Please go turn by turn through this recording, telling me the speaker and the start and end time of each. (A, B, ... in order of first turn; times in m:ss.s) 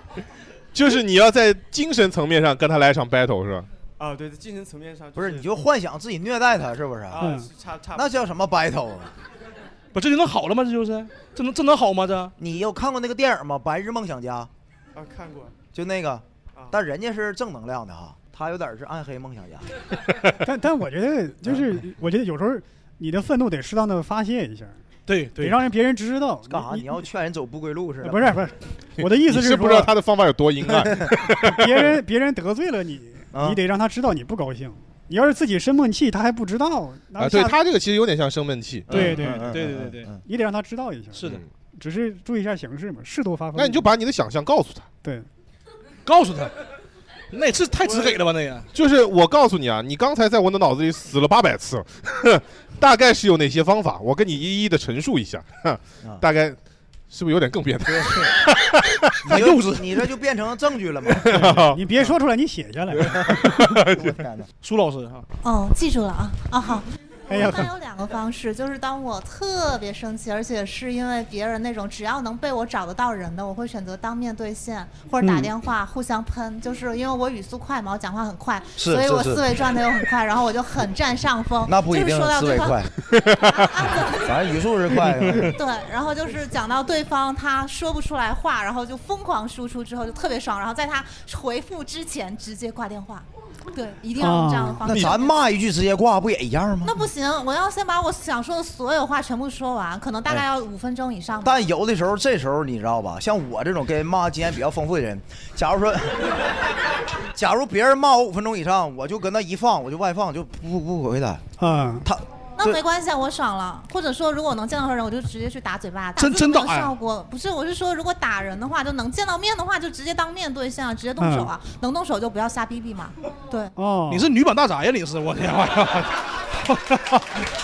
0:00.7-0:03.7 A
0:04.0-0:05.5 B
0:05.2-0:07.4 C
0:07.1-0:08.3 B
0:07.2-0:07.5 D
0:08.0-0:09.1 C
0:09.9-0:12.3 E
0:12.4-0:14.5 C
0:14.9-0:15.6 B
0:15.7-0:19.7 C
0:20.4-0:24.8 D
0:25.1-0:25.6 E
0:25.4-0:26.9 D
0:26.5-0:28.4 C
0:28.0-0:29.9 D
0:29.0-0:31.9 A
0:30.8-0:31.0 C
0:31.4-0:37.6 D
0:33.3-0:33.6 C
0:37.2-0:38.9 A
0:38.9-0:40.1 E
0:38.9-0:40.2 C
0:38.9-0:39.5 D
0:40.2-0:41.2 D
0:41.2-0:41.4 E
0:41.8-0:43.9 D
0:43.6-0:44.9 A
0:46.1-0:46.5 E
0:47.3-0:48.7 E
0:48.7-0:56.6 A
0:57.1-0:59.3 A
0:59.2-1:01.5 C
0:59.3-0:59.8 E
1:01.2-1:01.8 A
1:01.4-1:03.6 D
1:03.1-1:04.2 A
1:03.9-1:04.5 C
1:04.6-1:05.3 E
1:05.4-1:22.8 F
1:07.3-1:07.7 D
1:15.2-1:15.5 D
1:18.8-1:19.4 C
1:21.7-1:22.9 C
1:23.1-1:23.7 A
1:23.4-1:24.4 F
1:24.1-1:25.6 C
1:25.4-1:35.4 F
1:34.2-1:34.8 D
1:34.9-1:37.0 C
1:36.8-1:41.6 F
1:41.4-1:46.3 C
1:47.3-1:51.4 C
1:51.6-1:52.1 D
1:52.0-1:52.8 C
1:52.6-2:03.7 F
1:56.2-1:56.9 E
2:01.2-2:01.5 D
2:03.8-2:04.3 D
2:04.1-2:07.2 E